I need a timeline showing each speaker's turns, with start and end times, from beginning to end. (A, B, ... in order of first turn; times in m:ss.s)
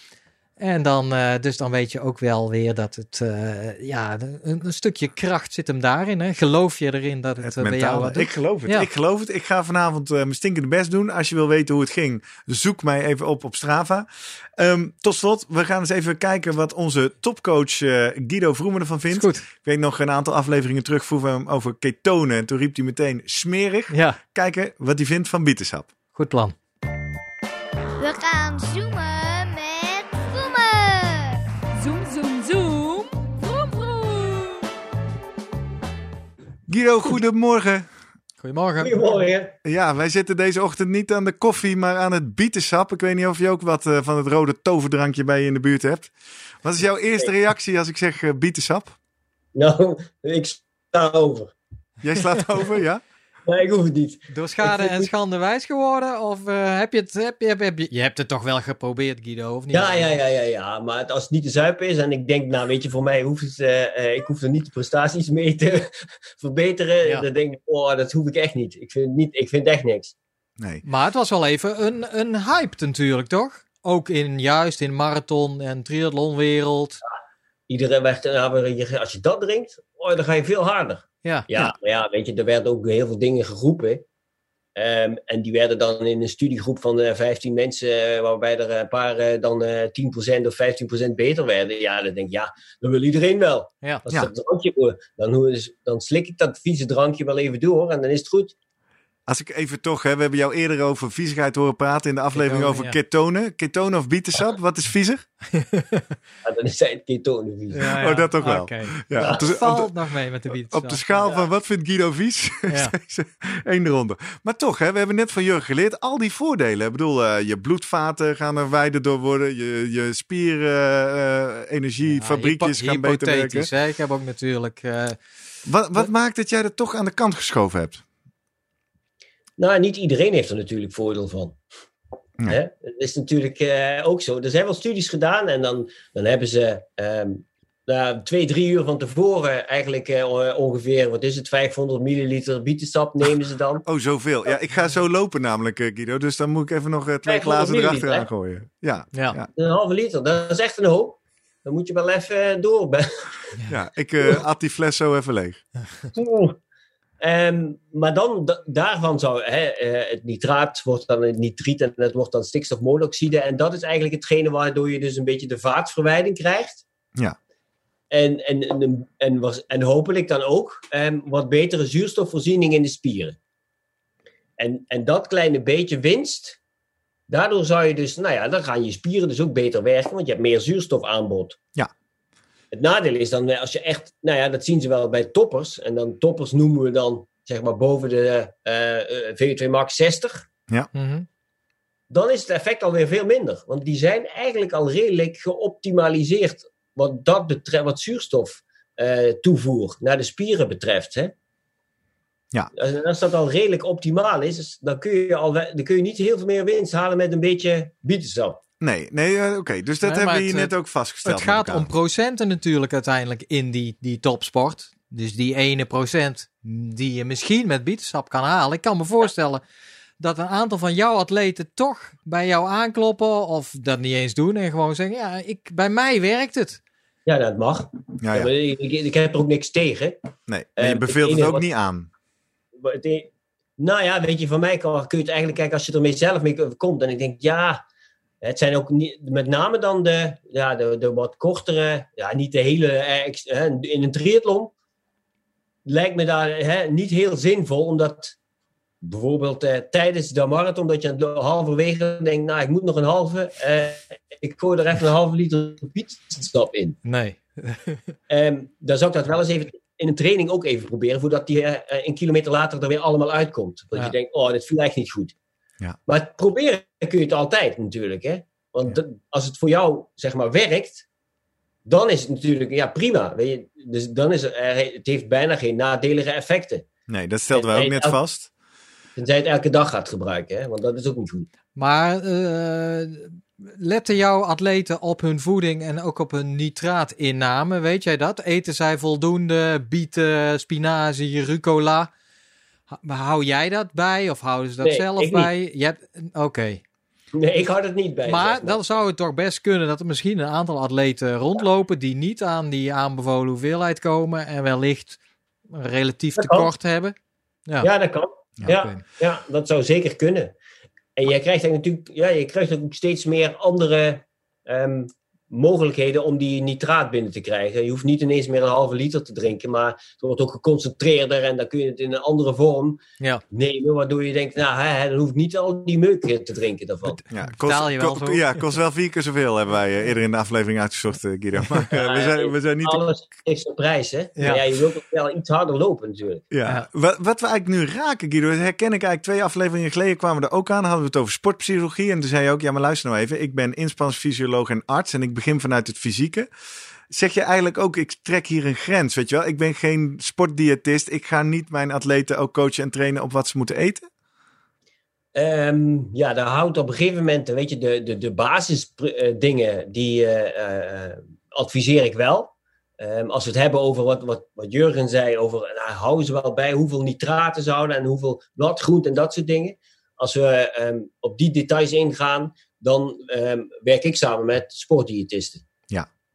0:00.6-0:08.9 A
0:07.4-0:25.9 B
0:19.1-0:19.4 A
0:23.9-0:24.2 A
0:26.2-0:26.5 A
0:28.0-0:34.7 C
0:36.7-0:37.9 B
0:38.4-0:39.1 A
0:38.8-0:39.5 D
0:39.6-0:49.0 B
0:49.5-0:51.5 D
0:52.0-0:53.0 B
0:53.4-0:55.1 D
0:54.3-1:00.1 A
0:59.7-1:10.1 D
1:10.6-1:10.8 B
1:10.8-1:17.0 A
1:17.7-1:24.0 D
1:21.2-1:21.7 A
1:24.8-1:38.5 D
1:39.3-1:45.2 B
1:42.3-1:43.0 A
1:45.5-1:46.1 A
1:46.4-1:47.9 D
1:47.7-1:51.3 A
1:47.9-1:49.9 B
1:49.2-1:49.5 D
1:50.6-2:03.7 B
1:52.7-1:52.9 A
2:02.0-2:05.2 A
2:05.6-2:08.0 B
2:09.6-2:11.6 D
2:12.4-2:23.8 D
2:23.8-2:29.5 B
2:27.2-2:28.3 D
2:29.5-2:33.4 D
2:33.7-2:35.6 B
2:36.1-2:36.6 D
2:37.2-2:46.8 D
2:48.1-2:53.4 D
2:54.6-2:56.6 D
2:57.3-3:01.6 D
3:02.7-3:10.5 D
3:10.9-3:11.3 A
3:12.1-3:21.3 D
3:22.7-3:28.6 D
3:28.8-3:31.9 B
3:30.0-3:30.7 A
3:31.2-3:39.6 A
3:40.2-3:46.8 A
3:47.2-3:50.2 D
3:48.2-3:48.5 B
3:50.5-3:52.1 B
3:50.8-3:51.6 D
3:52.8-3:57.8 D
3:58.4-4:04.7 D
4:05.8-4:08.4 D
4:09.0-4:17.0 D
4:17.0-4:18.1 A
4:18.3-4:25.3 D
4:26.1-4:31.0 D
4:31.8-4:36.9 D
4:37.1-4:38.5 B
4:37.5-4:38.2 D
4:39.2-4:41.5 D
4:41.8-4:52.1 A
4:52.9-4:56.8 A
4:54.8-4:55.5 D
4:57.3-4:58.8 D
4:58.2-5:05.2 A
5:05.7-5:07.1 A
5:06.4-5:06.7 D
5:07.8-5:10.5 D
5:08.7-5:09.0 A
5:11.2-5:27.2 D
5:27.2-5:33.0 B
5:27.5-5:28.6 A
5:31.9-5:36.4 D
5:36.5-5:46.5 B
5:47.1-5:54.1 B
5:55.3-6:15.6 D